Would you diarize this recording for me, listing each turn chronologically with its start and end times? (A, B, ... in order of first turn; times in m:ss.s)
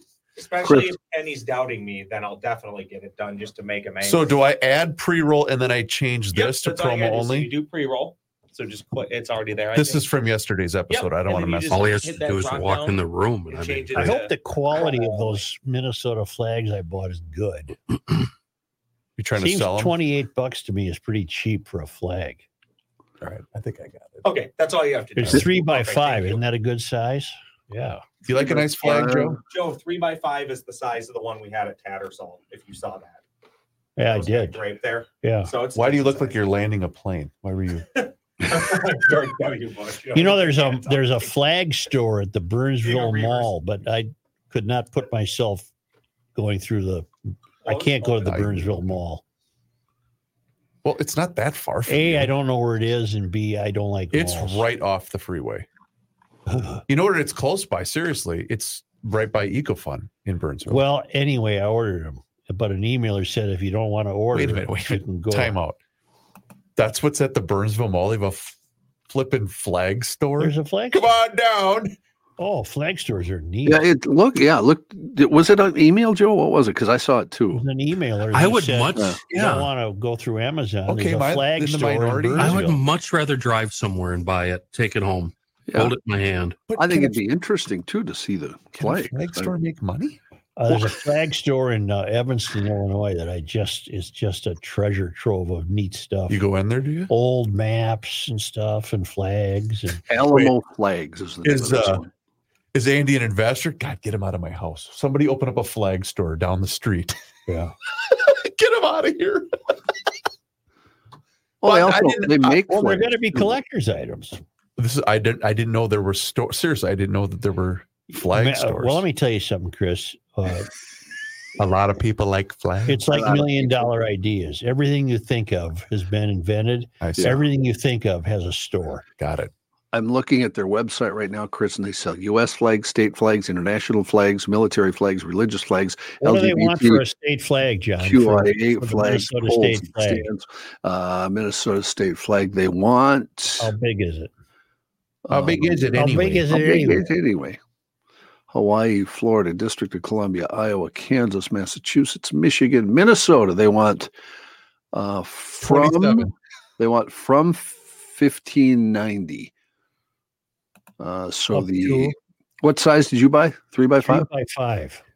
0:00.4-0:04.4 A
0:00.6-0:01.0 B
0:04.0-0:07.5 C
0:06.4-0:10.1 A
0:09.8-0:11.9 C
0:10.9-0:13.0 A
0:11.7-0:14.2 D
0:13.5-0:15.4 A
0:14.0-0:17.8 E
0:19.2-0:20.0 C
0:19.4-0:22.4 E
0:23.2-0:24.3 C
0:24.2-0:26.4 A
0:25.2-0:28.0 E
0:28.3-0:29.4 C
0:28.4-0:29.4 B
0:29.5-0:33.2 A
0:34.0-0:34.6 E
0:34.0-0:36.4 A
0:35.2-0:35.5 E
0:35.8-0:38.0 C
0:38.5-0:41.2 A
0:40.1-0:45.7 E
0:42.8-0:43.5 A
0:46.4-0:47.1 E
0:47.6-0:48.3 A
0:47.6-0:49.2 E
0:48.2-0:49.0 C
0:50.8-0:52.3 C
0:51.9-0:54.7 E
0:54.1-0:55.7 C
0:56.5-0:56.8 E
0:56.9-1:00.8 C
1:00.7-1:05.6 E
1:04.3-1:05.8 C
1:06.8-1:08.6 C
1:09.1-1:12.0 C
1:10.4-1:11.1 E
1:12.4-1:13.8 E
1:13.7-1:17.6 B
1:17.5-1:22.8 E
1:18.3-1:19.7 D
1:20.9-1:22.7 C
1:22.4-1:26.6 D
1:26.7-1:27.2 C
1:26.8-1:29.5 B
1:28.8-1:30.2 C
1:30.6-1:36.4 E
1:36.3-1:37.1 C
1:37.1-1:40.0 E
1:40.1-1:42.1 B
1:41.4-1:42.0 C
1:42.7-1:47.2 C
1:47.5-1:47.7 E
1:48.0-1:49.5 C
1:51.6-1:53.6 B
1:51.6-1:52.6 C
1:52.7-1:54.4 E
1:54.8-1:59.0 C
1:58.3-2:00.7 E
2:01.6-2:03.3 C
2:02.9-2:09.0 E
2:03.1-2:04.1 B
2:07.0-2:07.4 C
2:09.2-2:09.5 C
2:09.9-2:17.0 B
2:16.2-2:20.3 E
2:18.0-2:23.7 B
2:23.6-2:24.3 E
2:25.3-2:27.6 B
2:25.3-2:26.6 C
2:25.9-2:27.1 E
2:28.5-2:34.1 B
2:34.9-2:39.5 B
2:35.6-2:36.3 C
2:41.0-2:44.3 B
2:41.5-2:42.2 E
2:44.0-2:45.0 E